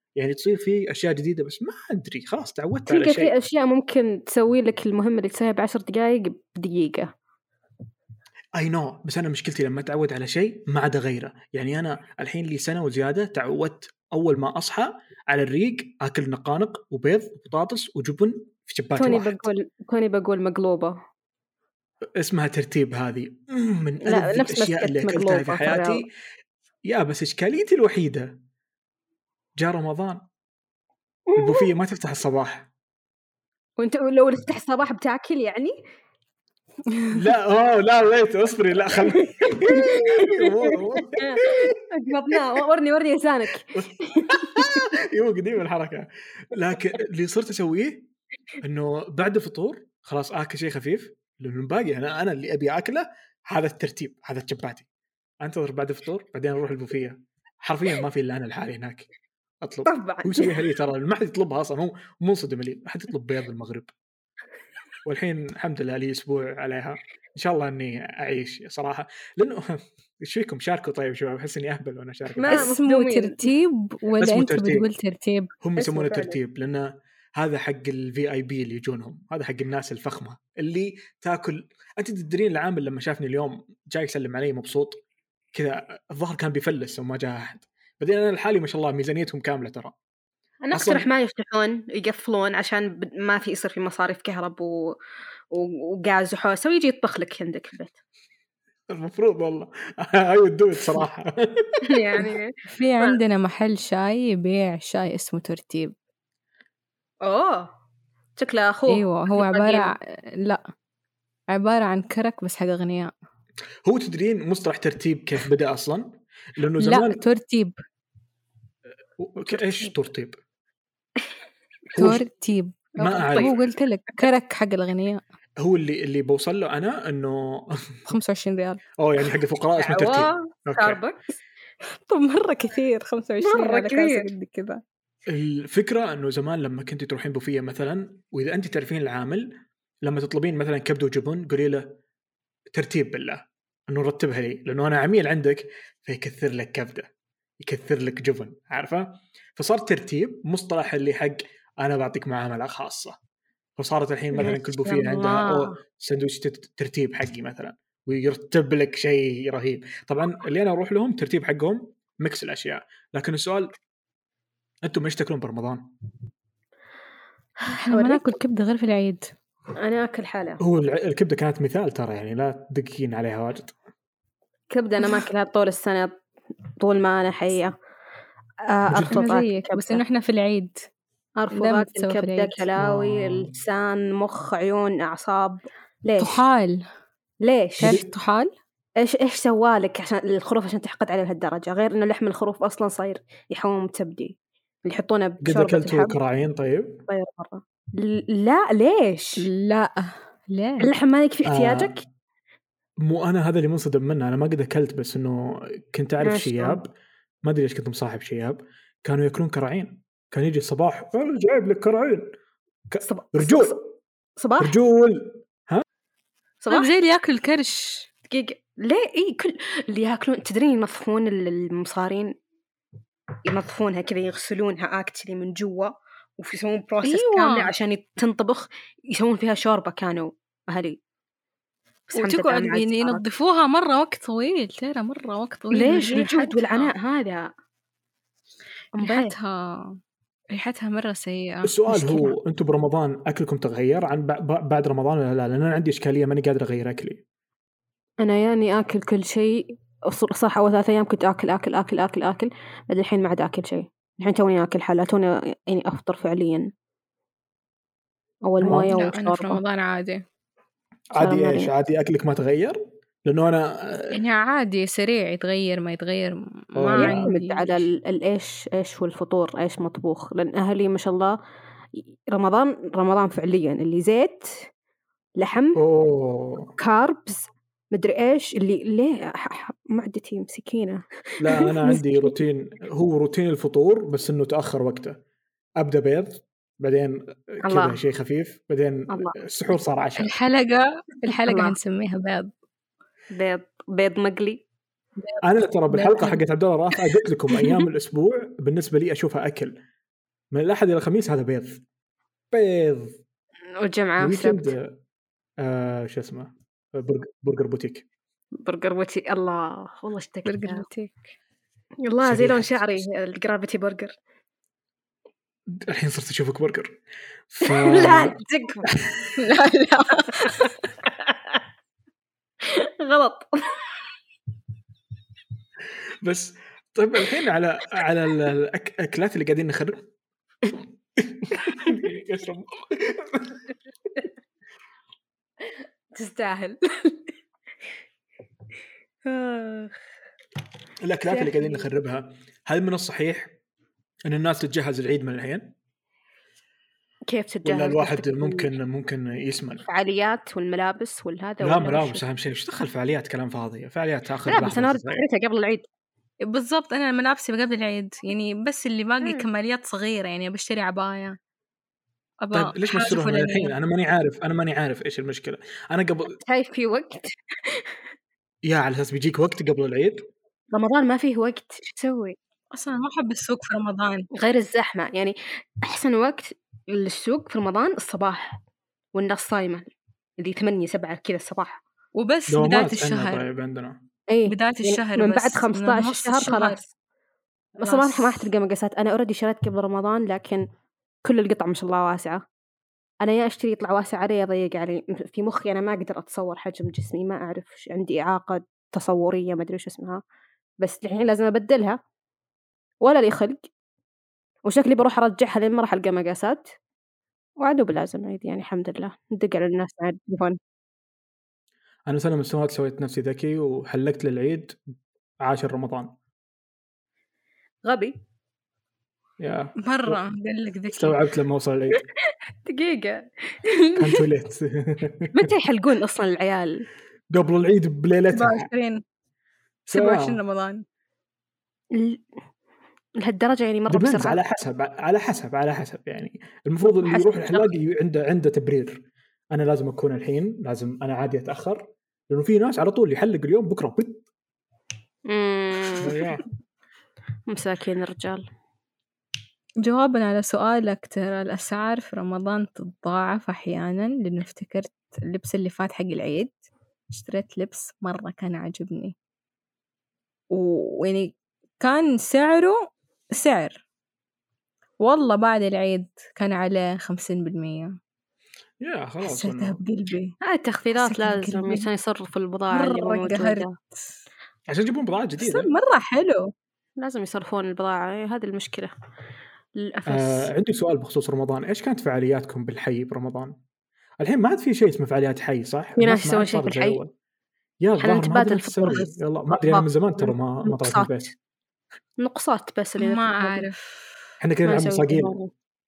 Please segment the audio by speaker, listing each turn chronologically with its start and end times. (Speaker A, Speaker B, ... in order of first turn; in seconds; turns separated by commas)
Speaker A: 0.2-3.3, Speaker B: 2.9-7.1, Speaker A: 8.6-19.5, Speaker B: 19.0-21.0, Speaker A: 22.2-26.1, Speaker B: 24.1-26.1, Speaker A: 26.9-28.4, Speaker A: 29.6-30.2, Speaker B: 31.3-31.7, Speaker A: 31.4-32.7, Speaker B: 33.8-35.8, Speaker A: 37.1-41.7, Speaker B: 38.9-44.8, Speaker A: 43.7-48.1, Speaker A: 48.6-54.9, Speaker A: 55.4-59.1, Speaker A: 59.6-63.9, Speaker B: 59.9-60.5, Speaker A: 65.0-72.7, Speaker B: 72.3-73.5, Speaker C: 72.5-75.5, Speaker A: 74.2-74.9, Speaker A: 75.6-85.0, Speaker B: 75.8-76.4, Speaker A: 85.5-90.0, Speaker B: 90.6-95.0, Speaker A: 90.7-91.1, Speaker B: 95.5-98.0, Speaker A: 98.9-102.2, Speaker B: 101.8-103.2, Speaker C: 102.7-105.9, Speaker B: 107.2-107.7, Speaker B: 108.4-109.9, Speaker C: 108.9-110.6, Speaker C: 111.5-113.1, Speaker A: 113.8-117.2, Speaker C: 116.8-117.7, Speaker A: 119.2-120.4, Speaker B: 119.6-119.9, Speaker A: 121.9-122.2, Speaker C: 122.0-125.2, Speaker A: 123.0-123.5, Speaker B: 123.0-123.6, Speaker A: 125.6-128.0, Speaker C: 128.1-128.8, Speaker A: 129.0-131.0, Speaker B: 129.8-131.4, Speaker C: 132.0-134.8, Speaker B: 133.4-134.3, Speaker A: 135.3-142.0, Speaker A: 142.7-153.2, Speaker A: 153.8-163.8, Speaker B: 154.3-155.8, Speaker A: 164.8-165.9, Speaker C: 167.7-169.3, Speaker B: 167.9-168.4, Speaker B: 169.8-170.6, Speaker A: 170.6-173.8, Speaker B: 174.7-176.1, Speaker B: 176.8-177.7, Speaker B: 178.6-180.0, Speaker C: 179.0-180.9, Speaker B: 181.4-186.4, Speaker C: 181.5-182.7, Speaker A: 182.8-183.5, Speaker C: 186.2-186.8, Speaker B: 187.4-188.0, Speaker C: 187.8-188.5, Speaker A: 187.8-188.1, Speaker B: 189.0-196.1, Speaker A: 195.4-197.0, Speaker B: 197.1-199.5, Speaker C: 199.4-200.9, Speaker B: 200.8-202.0, Speaker A: 201.4-201.9, Speaker A: 203.0-206.9, Speaker B: 206.2-206.8, Speaker A: 207.4-212.3, Speaker A: 212.9-213.9, Speaker B: 213.0-213.8, Speaker B: 214.4-214.7, Speaker A: 214.6-215.8, Speaker B: 216.6-216.9, Speaker C: 216.7-218.1, Speaker B: 218.3-222.3, Speaker B: 223.4-231.0, Speaker C: 227.0-227.7, Speaker B: 232.1-233.2, Speaker C: 232.1-236.9, Speaker B: 235.7-237.5, Speaker B: 239.0-239.3, Speaker C: 239.0-240.0, Speaker C: 240.5-242.2, Speaker A: 241.6-247.2, Speaker B: 248.2-256.7, Speaker B: 258.4-259.6, Speaker A: 258.6-258.9, Speaker C: 258.9-260.3, Speaker A: 261.1-264.2, Speaker B: 261.2-261.7, Speaker C: 264.1-267.9, Speaker A: 266.8-267.3, Speaker B: 267.0-271.4, Speaker B: 271.9-274.7, Speaker B: 275.4-275.8, Speaker A: 275.8-276.8, Speaker B: 276.8-282.4, Speaker A: 281.4-285.2, Speaker A: 285.8-290.3, Speaker B: 287.6-288.0, Speaker B: 289.1-289.4, Speaker C: 290.2-292.5, Speaker B: 291.3-291.8, Speaker B: 293.3-294.6, Speaker C: 295.2-296.4, Speaker A: 295.4-299.8, Speaker A: 300.5-301.8, Speaker A: 302.5-303.2, Speaker B: 303.7-304.8, Speaker A: 304.2-304.9, Speaker A: 305.6-308.1, Speaker B: 308.6-310.9, Speaker C: 310.5-311.2, Speaker B: 312.0-314.1, Speaker A: 312.2-312.9, Speaker A: 315.7-317.0, Speaker A: 317.5-318.4, Speaker B: 317.6-318.9, Speaker A: 318.9-319.3, Speaker C: 319.4-320.9, Speaker B: 320.4-321.6, Speaker B: 322.6-323.8, Speaker A: 326.2-330.1, Speaker A: 331.2-333.6, Speaker B: 331.7-331.9, Speaker B: 335.6-337.3, Speaker B: 339.2-340.0, Speaker A: 341.0-343.6, Speaker B: 341.3-341.9, Speaker A: 344.3-345.8, Speaker B: 347.3-348.7, Speaker A: 347.6-349.9, Speaker B: 349.9-352.2, Speaker A: 351.6-355.2, Speaker B: 354.5-355.9, Speaker C: 356.4-361.4, Speaker B: 359.2-359.5, Speaker C: 362.4-363.7, Speaker A: 362.5-366.4, Speaker B: 366.3-368.0, Speaker A: 368.6-370.3, Speaker B: 370.7-372.4, Speaker C: 372.7-374.3, Speaker B: 374.3-378.6, Speaker B: 379.1-379.9, Speaker B: 380.4-381.8, Speaker C: 382.1-383.4, Speaker A: 382.5-384.0, Speaker B: 384.3-386.9, Speaker C: 384.4-386.8, Speaker B: 387.8-390.6, Speaker C: 387.8-388.5, Speaker B: 391.2-392.4, Speaker B: 393.2-400.2, Speaker B: 400.8-402.0, Speaker B: 403.0-403.7, Speaker B: 404.6-406.7, Speaker B: 407.6-410.6, Speaker A: 412.1-414.8, Speaker A: 415.4-416.1, Speaker B: 417.9-418.2, Speaker A: 419.4-420.2, Speaker C: 419.8-421.2, Speaker A: 420.9-422.0, Speaker B: 422.6-424.3, Speaker A: 424.0-425.5, Speaker B: 425.3-426.9, Speaker A: 427.3-428.7, Speaker C: 428.3-429.0, Speaker A: 429.9-430.4, Speaker C: 429.9-430.9, Speaker B: 431.9-432.2, Speaker B: 433.2-434.4, Speaker A: 433.9-444.3, Speaker B: 436.9-437.7, Speaker B: 445.3-446.2, Speaker A: 446.0-446.5, Speaker B: 447.5-448.5, Speaker C: 449.8-459.1, Speaker C: 460.5-463.8, Speaker C: 465.0-468.0, Speaker A: 468.8-469.8, Speaker C: 469.2-470.4, Speaker B: 470.4-473.7, Speaker C: 471.0-471.9, Speaker C: 472.7-474.1, Speaker A: 474.7-475.7, Speaker C: 475.4-476.5, Speaker B: 477.0-478.9, Speaker B: 479.8-480.5, Speaker A: 480.1-483.6, Speaker A: 484.2-487.1, Speaker B: 486.0-487.0, Speaker A: 487.8-491.4, Speaker B: 488.0-491.2, Speaker B: 492.2-493.6, Speaker C: 493.0-494.2, Speaker A: 494.4-495.3, Speaker B: 494.6-495.5